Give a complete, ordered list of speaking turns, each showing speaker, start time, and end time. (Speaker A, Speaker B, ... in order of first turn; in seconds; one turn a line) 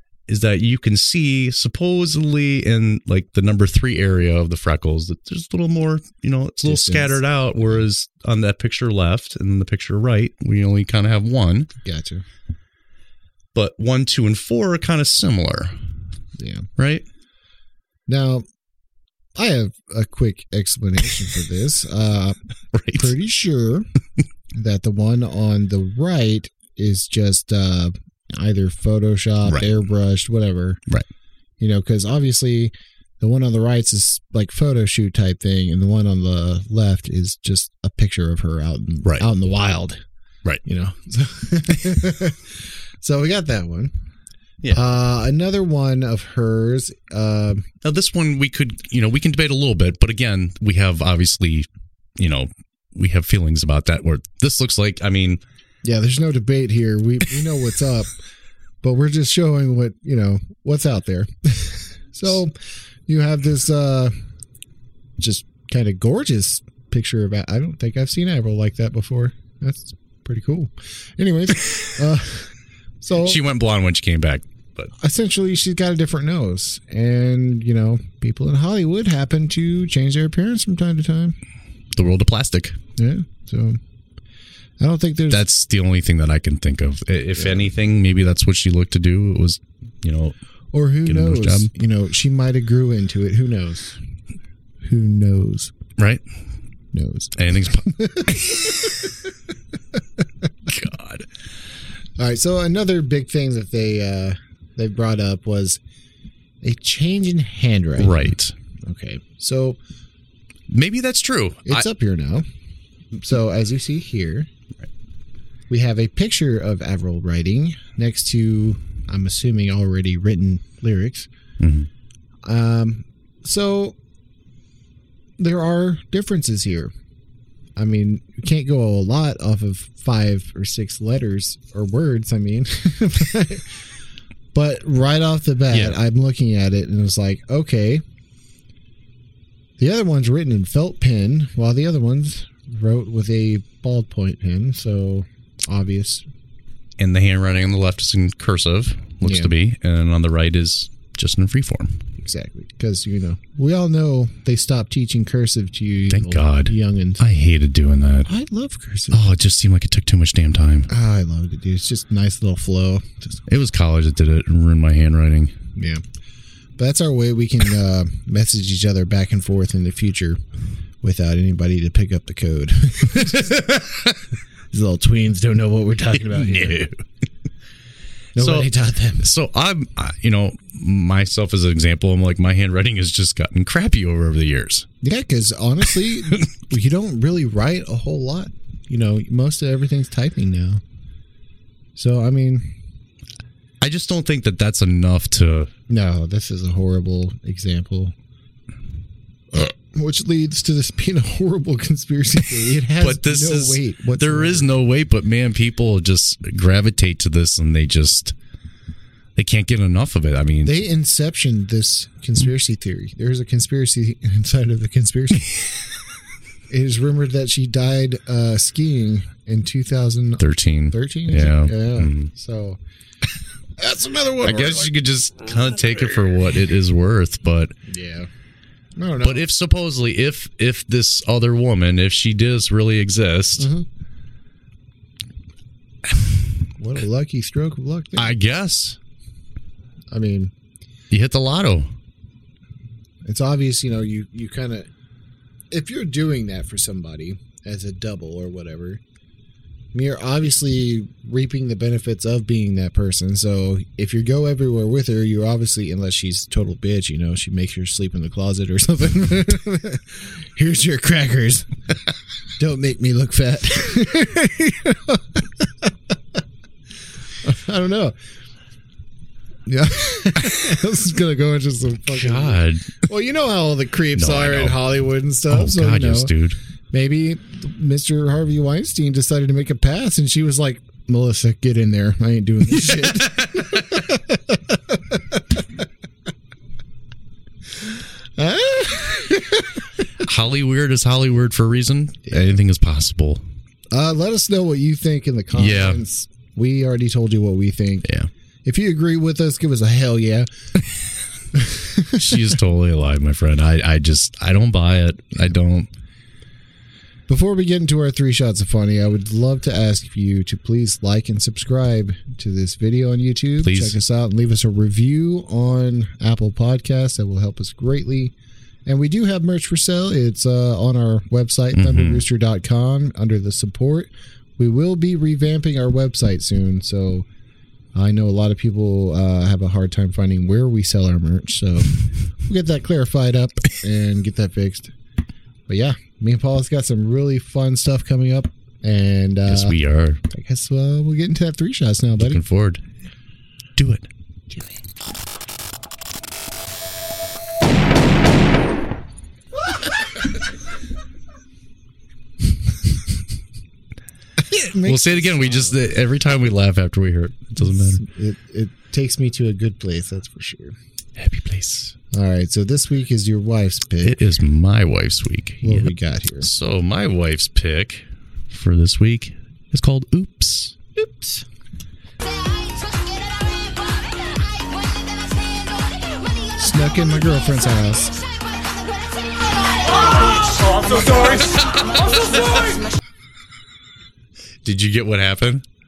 Speaker A: 0.3-11.7
Speaker B: 6.6-7.2
Speaker B: 11.8-12.2
Speaker A: 13.5-15.7
Speaker B: 16.4-16.7
Speaker A: 16.8-17.0
Speaker B: 18.1-18.4
Speaker B: 19.4-22.4
Speaker A: 22.7-23.1
Speaker B: 22.9-23.9
Speaker B: 24.5-30.8
Speaker B: 31.6-40.0
Speaker B: 40.6-43.9
Speaker B: 44.7-47.7
Speaker A: 47.8-55.4
Speaker B: 55.8-58.1
Speaker B: 58.8-62.5
Speaker B: 63.1-64.2
Speaker B: 65.2-73.4
Speaker A: 73.2-74.9
Speaker B: 75.0-81.4
Speaker A: 81.9-82.8
Speaker B: 83.0-83.8
Speaker B: 84.8-85.4
Speaker A: 85.3-90.3
Speaker B: 87.4-87.6
Speaker B: 90.7-94.0
Speaker A: 91.0-91.7
Speaker B: 94.8-95.7
Speaker A: 96.0-96.2
Speaker B: 96.9-99.2
Speaker A: 97.3-98.9
Speaker A: 100.7-101.3
Speaker B: 102.2-105.8
Speaker B: 106.6-109.8
Speaker A: 108.0-108.5
Speaker A: 110.7-111.9
Speaker B: 111.7-112.5
Speaker B: 113.1-114.5
Speaker B: 115.7-121.3
Speaker A: 121.6-121.9
Speaker B: 122.4-123.9
Speaker B: 125.4-126.9
Speaker B: 127.8-133.7
Speaker B: 134.5-138.0
Speaker A: 135.7-136.0
Speaker B: 139.8-146.2
Speaker A: 147.0-152.0
Speaker B: 149.2-149.5
Speaker B: 152.2-157.2
Speaker A: 156.1-158.3
Speaker B: 158.2-159.2
Speaker A: 159.1-160.9
Speaker B: 160.9-163.4
Speaker A: 163.5-165.5
Speaker B: 165.7-166.0
Speaker B: 166.8-170.4
Speaker B: 171.0-173.9
Speaker A: 173.4-174.1
Speaker B: 174.7-176.9
Speaker A: 176.2-177.0
Speaker B: 178.3-179.3
Speaker A: 178.3-178.7
Speaker A: 179.2-184.9
Speaker B: 185.0-190.8
Speaker B: 191.9-192.7
Speaker A: 193.8-195.7
Speaker B: 195.9-198.1
Speaker B: 199.5-204.8
Speaker A: 203.0-208.3
Speaker A: 209.3-210.8
Speaker B: 210.6-215.7
Speaker B: 216.7-222.8
Speaker A: 220.4-222.3
Speaker B: 223.8-224.9
Speaker A: 224.4-227.7
Speaker B: 227.9-228.3
Speaker B: 229.0-229.4
Speaker A: 229.2-233.7
Speaker B: 233.6-233.8
Speaker B: 236.8-238.4
Speaker A: 238.2-239.0
Speaker B: 240.1-240.5
Speaker A: 241.1-241.9
Speaker B: 243.2-244.9
Speaker B: 245.7-249.0
Speaker B: 249.9-261.7
Speaker B: 262.6-265.9
Speaker B: 267.4-268.1
Speaker B: 269.7-276.3
Speaker A: 272.1-272.9
Speaker A: 274.1-274.9
Speaker A: 275.5-276.6
Speaker B: 276.9-285.4
Speaker A: 282.9-283.6
Speaker B: 288.4-289.8
Speaker A: 290.2-293.4
Speaker B: 293.9-298.1
Speaker A: 295.5-296.0
Speaker B: 298.6-300.5
Speaker B: 301.5-302.5
Speaker A: 302.1-305.9
Speaker B: 307.3-318.3
Speaker A: 313.6-314.0
Speaker B: 318.9-327.2
Speaker A: 321.7-322.2
Speaker B: 327.9-334.9
Speaker B: 335.7-342.4
Speaker A: 339.4-340.2
Speaker A: 342.2-342.8
Speaker A: 343.8-344.1
Speaker B: 354.4-355.8
Speaker A: 354.8-358.0
Speaker B: 357.6-360.8
Speaker A: 361.2-361.9
Speaker B: 362.1-364.2
Speaker A: 364.0-370.8
Speaker B: 365.6-366.5
Speaker B: 371.0-371.4
Speaker C: 372.8-373.8
Speaker C: 374.6-376.5
Speaker B: 376.6-378.1
Speaker C: 378.4-381.3
Speaker A: 381.1-382.7
Speaker A: 384.6-385.6